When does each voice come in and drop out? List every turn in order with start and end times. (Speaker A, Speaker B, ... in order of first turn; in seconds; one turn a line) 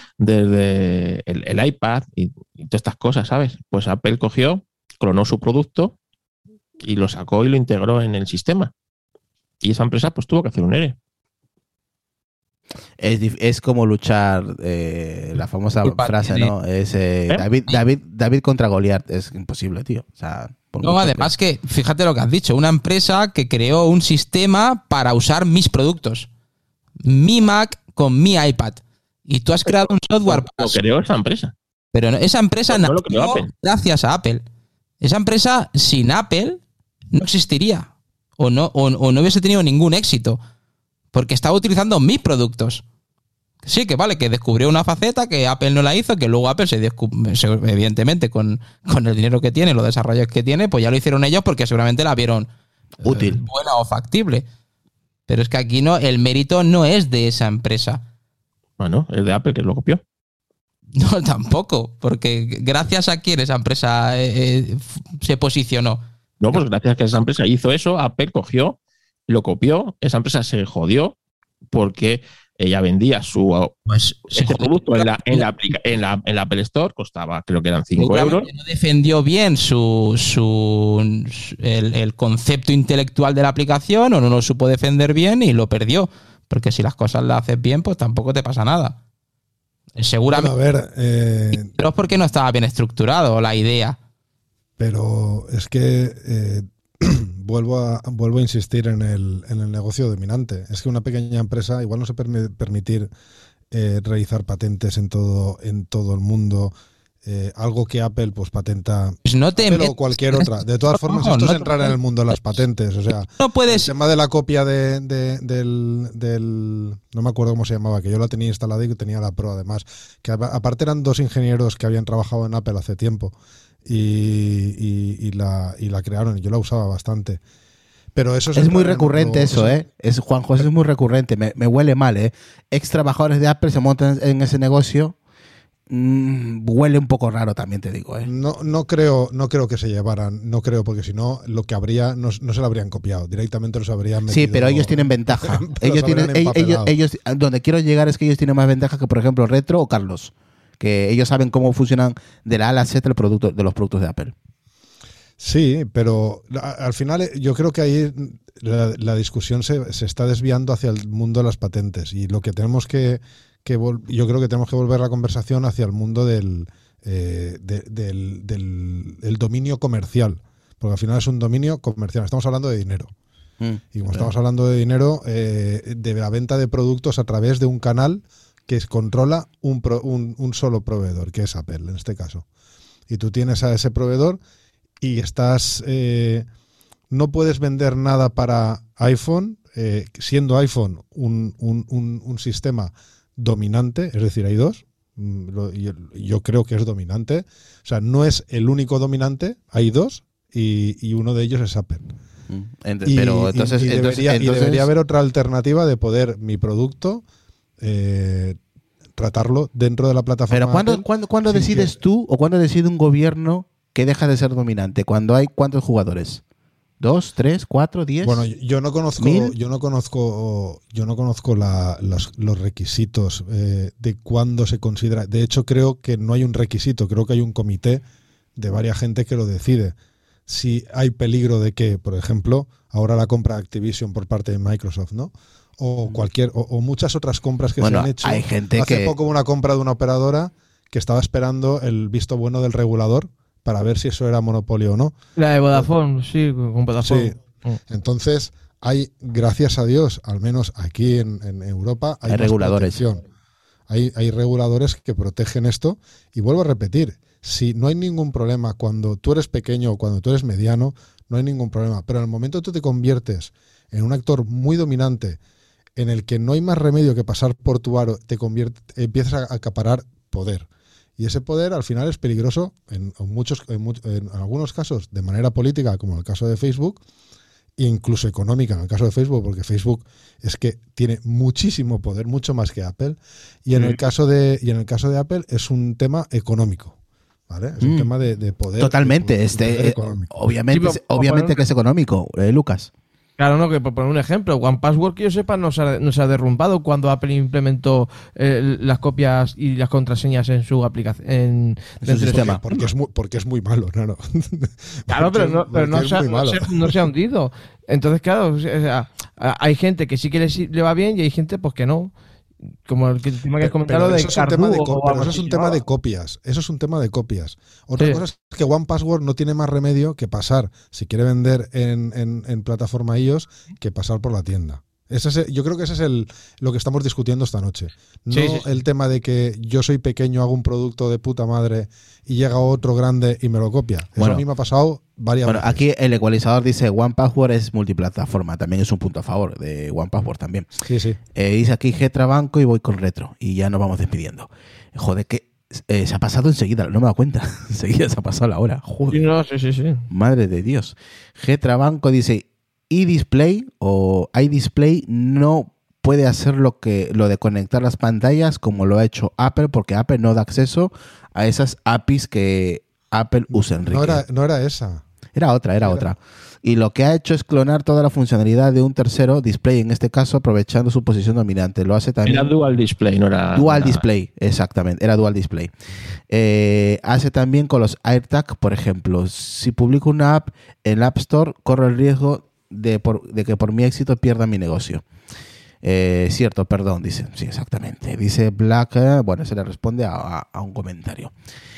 Speaker A: 0.2-5.9
Speaker A: 6.8-8.7
Speaker A: 9.6-10.9
Speaker B: 13.0-21.3
Speaker C: 15.8-16.5
Speaker C: 20.8-26.3
Speaker C: 27.0-30.8
Speaker A: 29.8-31.5
Speaker C: 31.9-34.4
Speaker A: 32.7-33.5
Speaker C: 35.0-36.6
Speaker C: 37.1-40.4
Speaker C: 41.1-42.8
Speaker C: 43.6-52.5
Speaker B: 53.0-53.4
Speaker C: 53.0-54.5
Speaker C: 55.3-58.0
Speaker A: 58.8-60.0
Speaker C: 61.0-66.6
Speaker A: 66.4-68.8
Speaker A: 69.3-71.2
Speaker A: 71.7-73.7
Speaker C: 73.9-75.5
Speaker A: 74.3-78.5
Speaker C: 78.0-89.0
Speaker C: 90.0-90.5
Speaker D: 90.3-91.7
Speaker C: 91.5-94.0
Speaker D: 94.8-103.1
Speaker D: 103.7-106.7
Speaker D: 107.2-123.3
Speaker C: 109.2-111.9
Speaker C: 113.4-113.9
Speaker D: 123.8-127.4
Speaker D: 128.1-129.8
Speaker B: 128.5-135.2
Speaker B: 135.9-138.3
Speaker D: 138.2-146.9
Speaker B: 144.3-154.3
Speaker D: 155.4-173.1
Speaker B: 173.6-174.3
Speaker D: 173.9-182.4
Speaker D: 183.1-184.4
Speaker D: 185.0-186.4
Speaker D: 187.1-202.1
Speaker B: 202.5-204.9
Speaker D: 203.0-207.2
Speaker D: 207.8-208.6
Speaker D: 209.2-212.0
Speaker B: 210.5-216.4
Speaker B: 217.0-218.4
Speaker D: 218.2-228.0
Speaker B: 219.2-219.5
Speaker D: 228.6-229.9
Speaker D: 230.5-245.2
Speaker B: 237.8-239.1
Speaker E: 245.4-247.8
Speaker D: 247.0-253.2
Speaker B: 252.3-253.0
Speaker D: 253.9-265.4
Speaker D: 265.9-277.0
Speaker D: 277.8-286.9
Speaker D: 287.5-290.3
Speaker B: 287.8-288.1
Speaker B: 288.8-292.9
Speaker E: 290.7-291.6
Speaker E: 293.4-302.8
Speaker D: 302.0-307.0
Speaker B: 302.1-302.6
Speaker E: 305.1-312.1
Speaker E: 312.9-315.8
Speaker D: 313.6-335.8
Speaker E: 318.0-318.2
Speaker E: 328.3-328.7
Speaker B: 334.2-334.4
Speaker B: 335.4-340.7
Speaker D: 340.8-341.2
Speaker B: 341.3-349.2
Speaker E: 349.1-350.1
Speaker B: 350.1-364.2
Speaker D: 363.5-365.0
Speaker B: 365.3-372.5
Speaker D: 365.8-366.1
Speaker A: 372.2-374.0
Speaker B: 373.5-375.7
Speaker B: 376.3-385.0
Speaker B: 385.8-391.3